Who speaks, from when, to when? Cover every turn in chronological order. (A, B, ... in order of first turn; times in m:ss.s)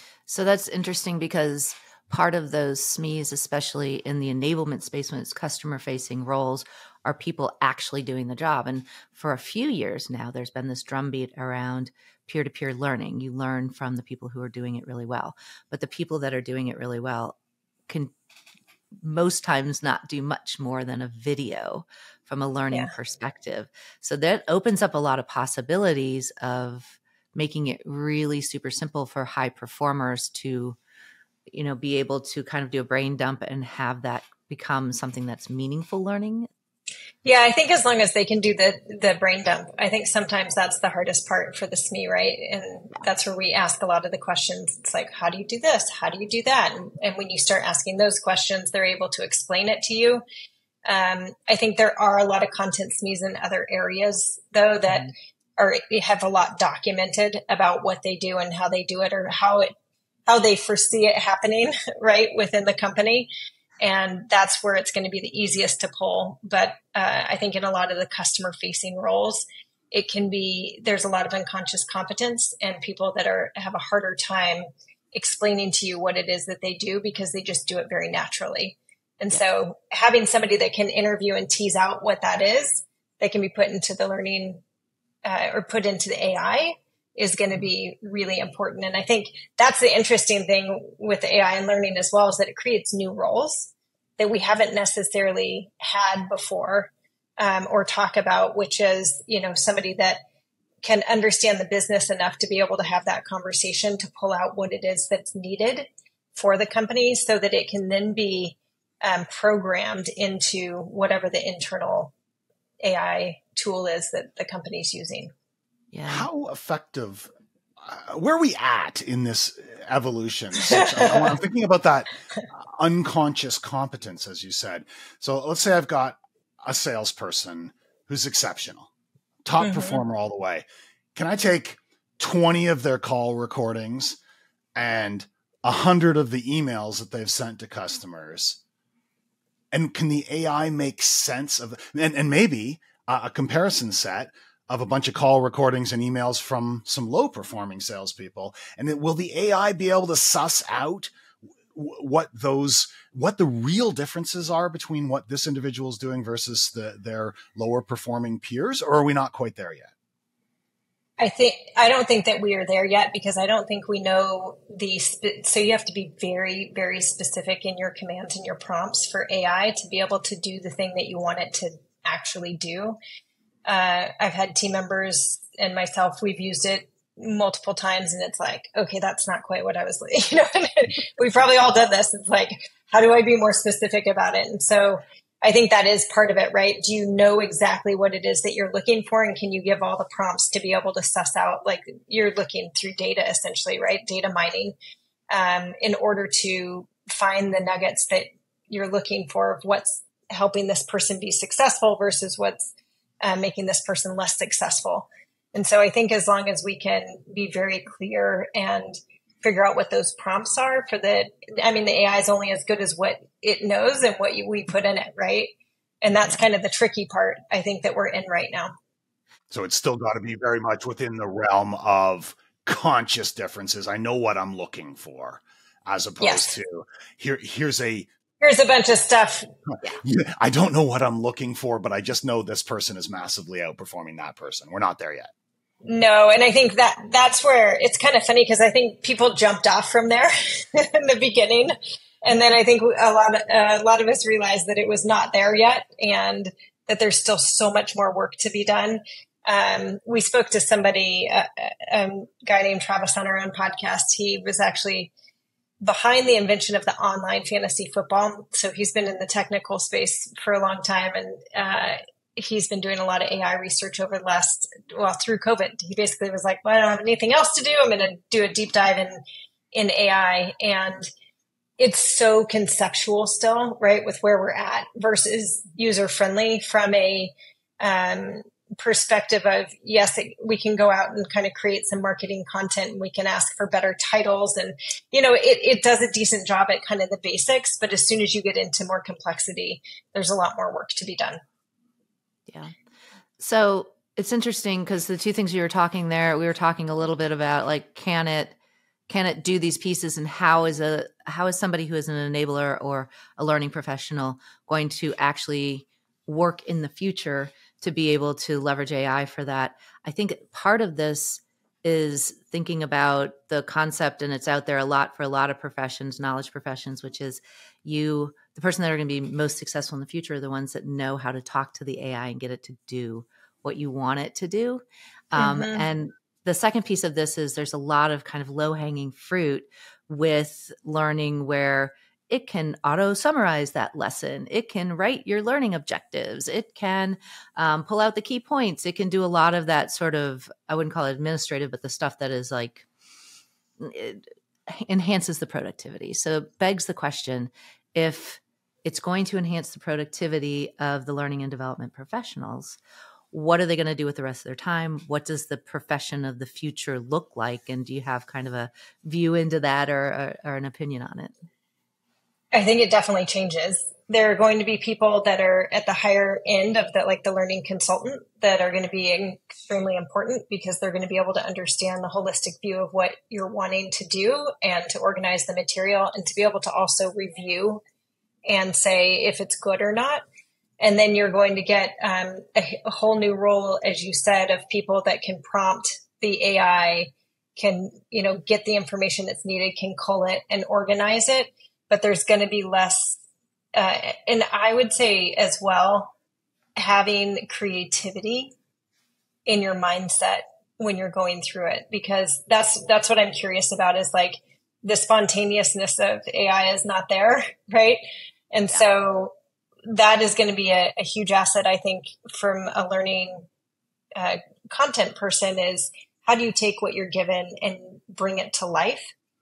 0:00.3-0:17.4 A
0:19.0-0:30.8 A
0:31.5-0:36.5 A
0:37.2-0:50.2 B
0:50.9-0:59.7 B
1:00.3-1:03.3 B
1:03.8-1:24.6 B
1:25.2-1:40.2 B
1:40.8-1:52.1 B
1:52.8-1:55.3 B
1:55.9-1:56.3 A
1:56.1-2:08.9 C
2:00.6-2:01.3 B
2:09.4-2:10.6 C
2:09.6-2:10.0 B
2:11.2-2:14.2 C
2:14.8-2:18.6 C
2:19.7-2:31.1 C
2:31.7-2:39.9 C
2:41.2-2:53.0 B
2:53.7-3:14.8 B
3:15.3-3:38.7 B
3:39.5-3:48.1 C
3:46.2-3:46.6 B
3:48.4-3:49.5 B
3:49.7-3:55.3 C
3:55.8-4:15.1 B
4:15.8-4:29.2 B
4:29.7-4:31.1 B
4:31.8-4:51.4 B
4:52.5-4:52.7 A
4:53.4-4:58.6 A
4:59.1-5:42.9 A
5:25.4-5:25.9 B
5:43.8-5:52.8 A
5:53.3-6:01.3 A
6:02.5-6:17.8 B
6:18.5-6:20.2 B
6:20.8-6:33.2 B
6:33.8-6:36.1 B
6:36.8-6:38.5 B
6:39.5-6:48.0 B
6:48.5-6:49.3 B
6:49.9-6:53.5 B
6:54.2-6:59.1 B